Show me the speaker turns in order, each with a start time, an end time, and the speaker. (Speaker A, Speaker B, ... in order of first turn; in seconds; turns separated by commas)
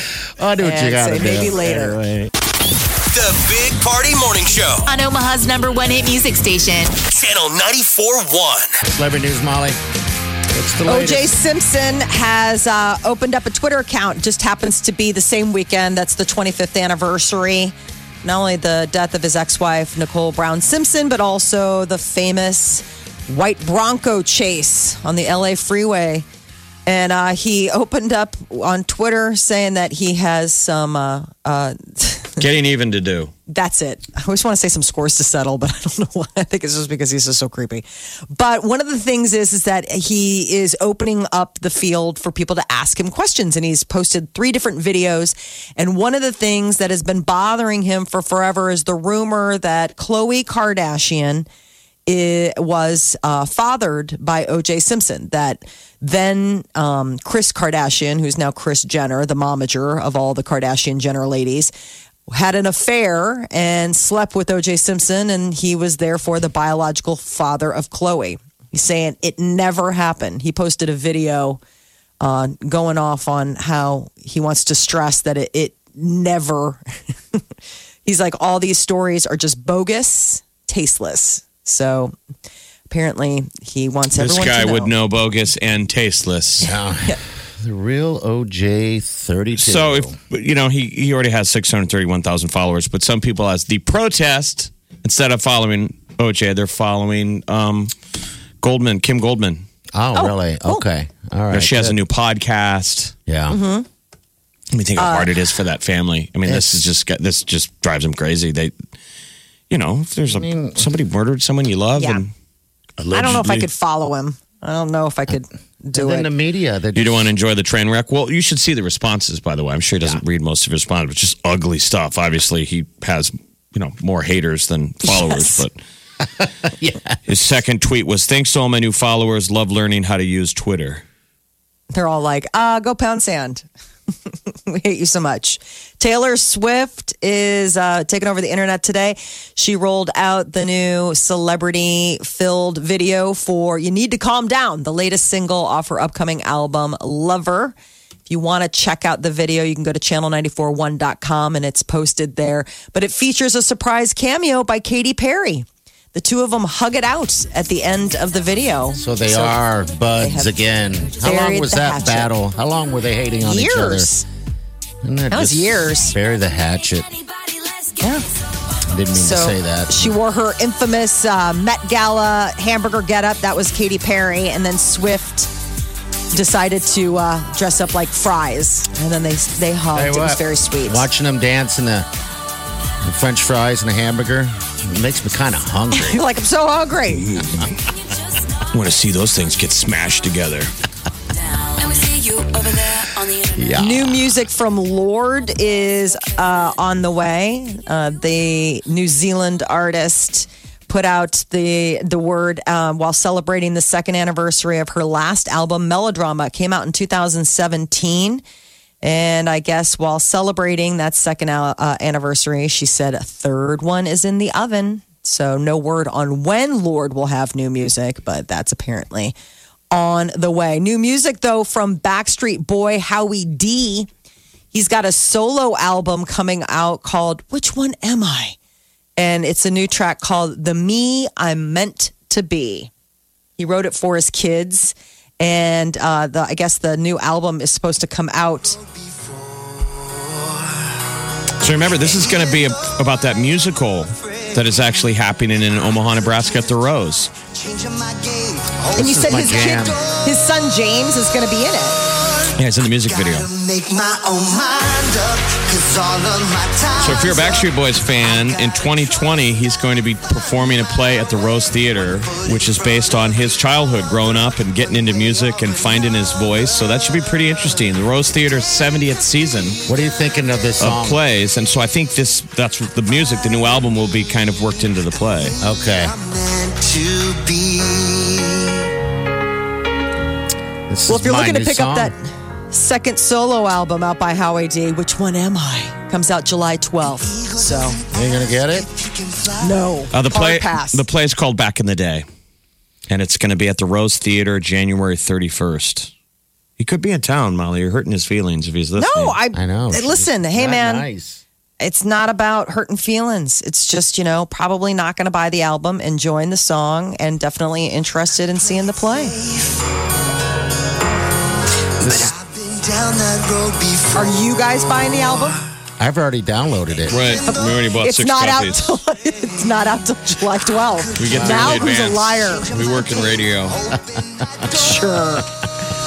Speaker A: 0.4-2.3, Speaker B: 0.6-2.0, Speaker C: 3.1-4.9, Speaker D: 4.8-7.0, Speaker C: 7.0-8.8, Speaker A: 8.8-9.8, Speaker A: 10.5-11.3, Speaker B: 10.8-26.2, Speaker B: 26.9-32.4, Speaker E: 32.4-33.3, Speaker B: 33.5-51.5, Speaker B: 52.1-61.7, Speaker B: 62.3-71.6, Speaker B: 72.2-76.8, Speaker B: 78.0-82.1, Speaker B: 82.9-84.9, Speaker E: 84.2-86.7, Speaker A: 86.6-90.1, Speaker E: 89.5-97.9, Speaker E: 98.6-99.6, Speaker A: 99.9-102.0, Speaker B: 100.1-100.8, Speaker E: 101.5-103.1, Speaker A: 103.3-103.6, Speaker B: 103.5-103.8, Speaker E: 104.7-108.7, Speaker B: 105.0-105.3, Speaker A: 106.5-106.8, Speaker E: 109.7-112.3, Speaker A: 110.3-110.9, Speaker B: 112.0-112.2, Speaker E: 113.0-113.7, Speaker B: 113.1-116.3, Speaker A: 115.9-117.3, Speaker E: 116.9-125.8, Speaker B: 125.0-125.7, Speaker A: 126.4-127.2, Speaker E: 127.2-131.0, Speaker B: 131.9-133.6, Speaker B: 134.7-147.7, Speaker B: 148.3-159.6, Speaker A: 159.0-164.1, Speaker B: 160.2-160.6, Speaker B: 161.2-162.3, Speaker B: 163.4-164.2, Speaker A: 165.0-167.1, Speaker B: 165.3-166.1, Speaker B: 168.0-168.2, Speaker A: 168.9-170.1, Speaker B: 169.1-175.5, Speaker B: 176.3-181.1, Speaker A: 179.9-182.1, Speaker A: 183.0-186.2, Speaker B: 185.9-187.4, Speaker E: 187.1-187.7, Speaker E: 188.7-190.7, Speaker D: 191.6-193.7, Speaker A: 193.6-194.3, Speaker B: 193.8-208.4, Speaker B: 209.0-219.3, Speaker B: 219.9-224.1, Speaker B: 224.7-228.6, Speaker B: 229.2-232.9, Speaker B: 233.6-238.8, Speaker E: 241.6-247.3, Speaker F: 247.5-250.2, Speaker A: 248.9-250.0, Speaker B: 248.9-252.0, Speaker F: 252.2-252.5, Speaker E: 252.6-253.5, Speaker F: 253.3-257.7, Speaker E: 257.0-269.8, Speaker F: 262.4-262.7, Speaker A: 269.9-271.2, Speaker E: 270.8-275.6, Speaker F: 275.4-278.8, Speaker A: 275.6-276.1, Speaker A: 280.9-282.1, Speaker B: 281.1-282.2, Speaker B: 282.7-288.0, Speaker F: 287.3-289.8, Speaker A: 288.1-288.9, Speaker B: 289.6-291.0, Speaker E: 290.1-292.2, Speaker E: 293.1-296.1, Speaker E: 296.8-299.4, Speaker B: 299.0-301.1, Speaker A: 299.5-301.4, Speaker B: 301.8-309.4, Speaker F: 308.7-309.8, Speaker F: 312.0-314.4, Speaker A: 312.0-312.3, Speaker B: 314.1-315.6, Speaker A: 316.0-317.2, Speaker E: 317.1-319.0, Speaker B: 317.5-322.7, Speaker F: 321.1-322.0, Speaker E: 321.2-323.8, Speaker A: 321.3-321.8, Speaker F: 322.6-324.9, Speaker B: 324.7-325.5